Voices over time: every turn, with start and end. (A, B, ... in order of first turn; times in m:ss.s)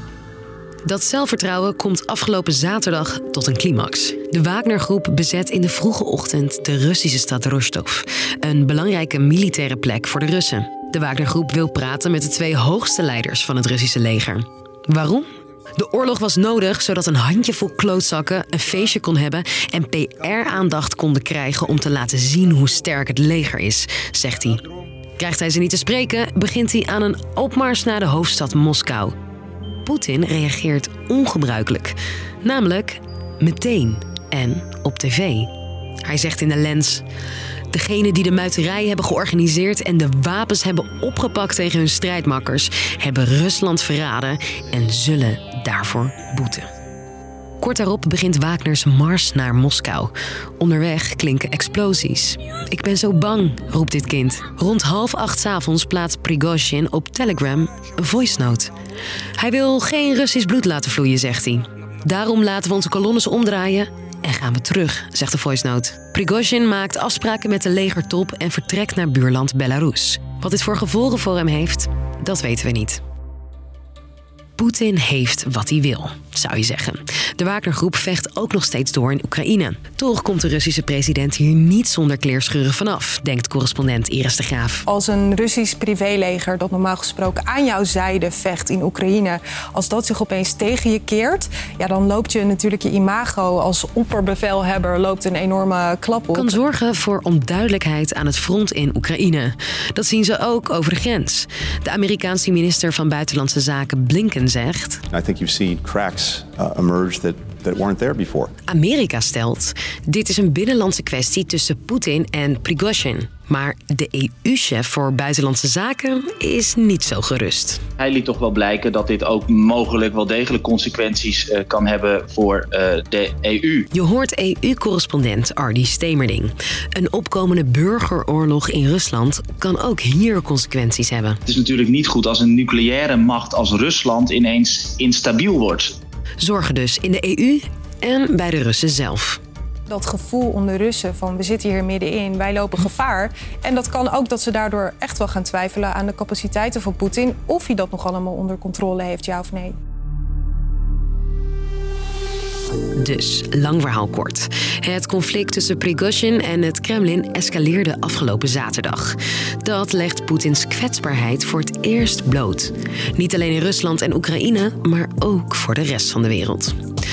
0:00.8-0:24.6 A
0:25.2-0:29.2 A
0:29.8-0:35.5 A
0:36.0-0:37.0 A
0:37.7-0:46.7 A
0:47.6-0:58.7 A
0:59.4-1:13.0 A
1:14.6-1:24.8 A
1:24.9-1:36.6 B
1:36.3-1:45.0 A
1:45.1-1:48.5 C
1:48.7-1:57.8 A
1:58.0-2:03.9 D
2:03.9-2:11.4 A
2:11.5-2:15.9 D
2:16.4-2:19.4 A
2:19.9-2:29.8 B
2:33.0-2:46.8 A